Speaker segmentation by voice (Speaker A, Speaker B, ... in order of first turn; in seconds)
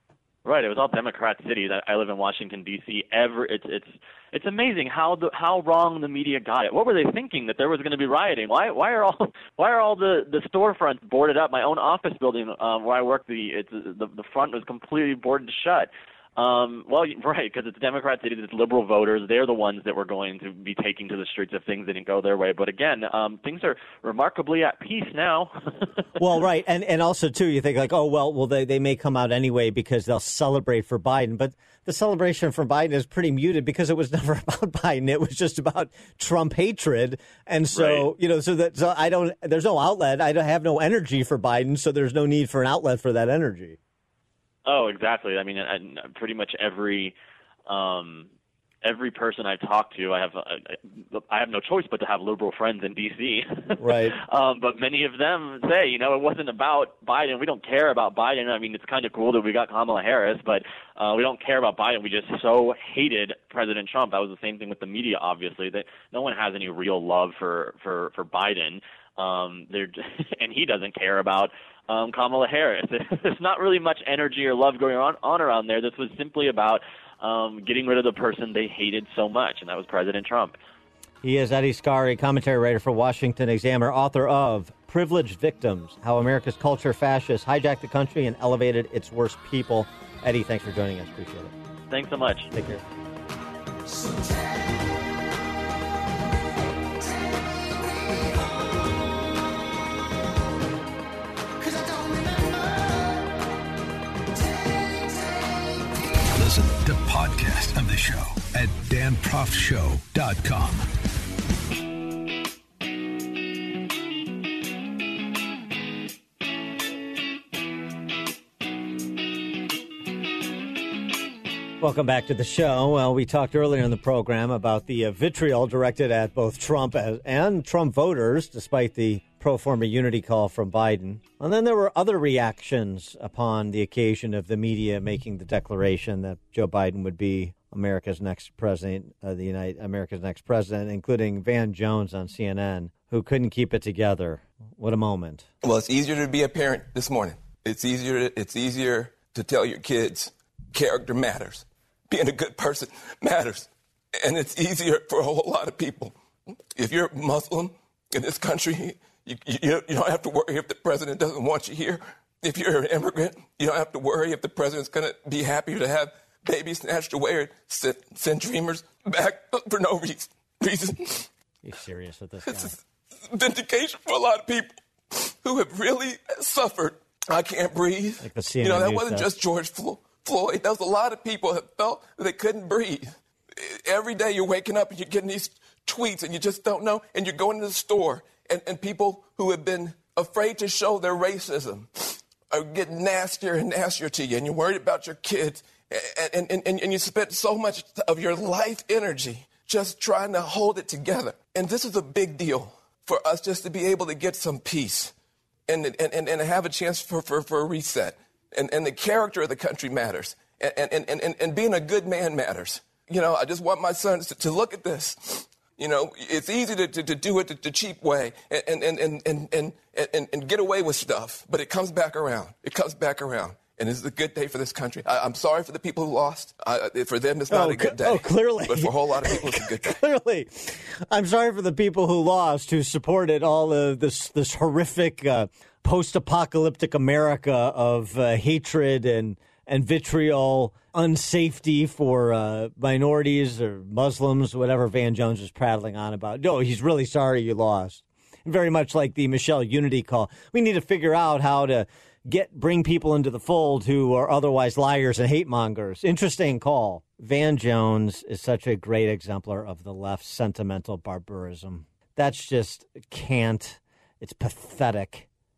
Speaker A: 0.5-25.9, 37.7-38.1, 44.7-47.1, 47.7-48.3, 48.8-80.5, 91.9-92.5
Speaker B: 26.2-43.8, 53.8-54.2, 81.2-91.5, 92.5-92.8, 121.8-145.5, 171.6-172.8, 178.2-179.3, 227.5-265.3
Speaker C: 106.3-110.9
Speaker D: 145.6-153.7, 154.2-156.2, 156.8-171.3, 172.5-205.1, 205.7-230.0